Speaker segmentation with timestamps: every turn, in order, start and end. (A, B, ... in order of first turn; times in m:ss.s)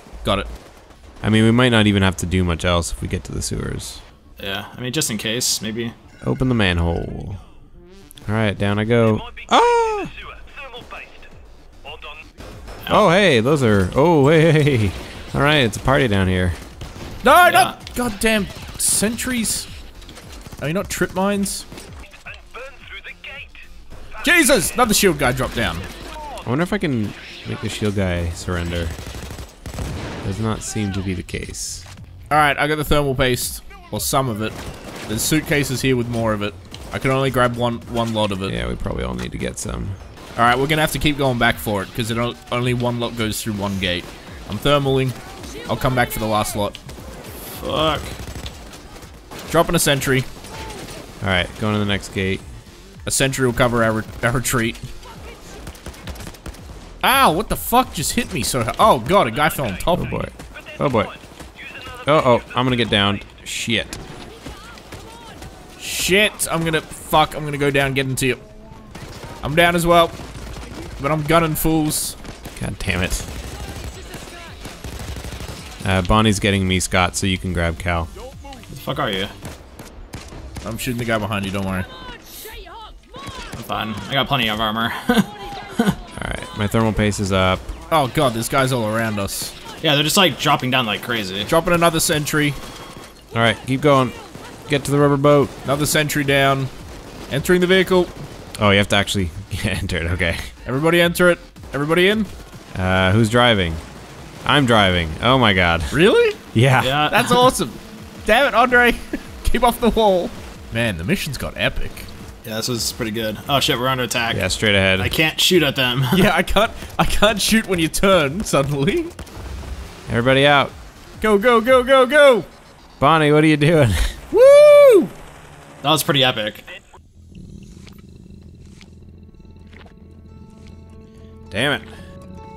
0:01.2-0:04.0 A
0:04.4-0:05.9 B
0:06.2-0:07.4 A
0:08.3-0:10.1 A
0:12.9-0:16.6 A
0:17.2-0:19.7 C
0:17.4-0:17.8 B
0:20.6-0:21.7 C
0:24.2-0:25.9 C
0:26.4-0:29.0 A
0:30.2-0:31.9 A
0:32.3-0:34.6 C
0:35.1-0:38.6 C
0:38.5-0:40.0 A
0:40.4-0:46.8 C
0:47.5-0:48.2 B
0:49.5-0:50.3 C
0:51.2-0:52.4 A
0:53.0-0:54.8 C
0:57.0-1:00.3 C
1:00.0-1:01.1 A
1:02.1-1:04.0 A
1:05.8-1:08.4 C
1:09.4-1:10.2 C
1:11.0-1:12.2 C
1:12.6-1:13.3 A
1:15.8-1:18.1 A
1:18.7-1:19.3 B
1:20.6-1:21.9 C
1:23.6-1:26.0 B
1:26.2-1:27.7 A
1:27.9-1:29.5 C
1:29.8-1:31.5 B
1:31.5-1:32.6 C
1:33.3-1:34.1 A
1:34.7-1:35.5 A
1:35.6-1:36.7 C
1:37.3-1:38.1 C
1:38.6-1:40.5 A
1:40.6-1:42.3 C
1:42.8-1:43.8 A
1:44.4-1:47.1 A
1:45.9-1:46.4 C
1:46.8-1:47.5 B
1:47.1-1:52.1 C
1:52.4-1:54.4 B
1:54.3-1:55.1 A
1:55.0-1:56.3 B
1:56.1-1:59.1 C
2:00.1-2:00.7 A
2:01.2-2:02.5 C
2:03.0-2:04.2 A
2:04.3-2:05.1 C
2:05.8-2:06.6 B
2:11.5-2:11.9 A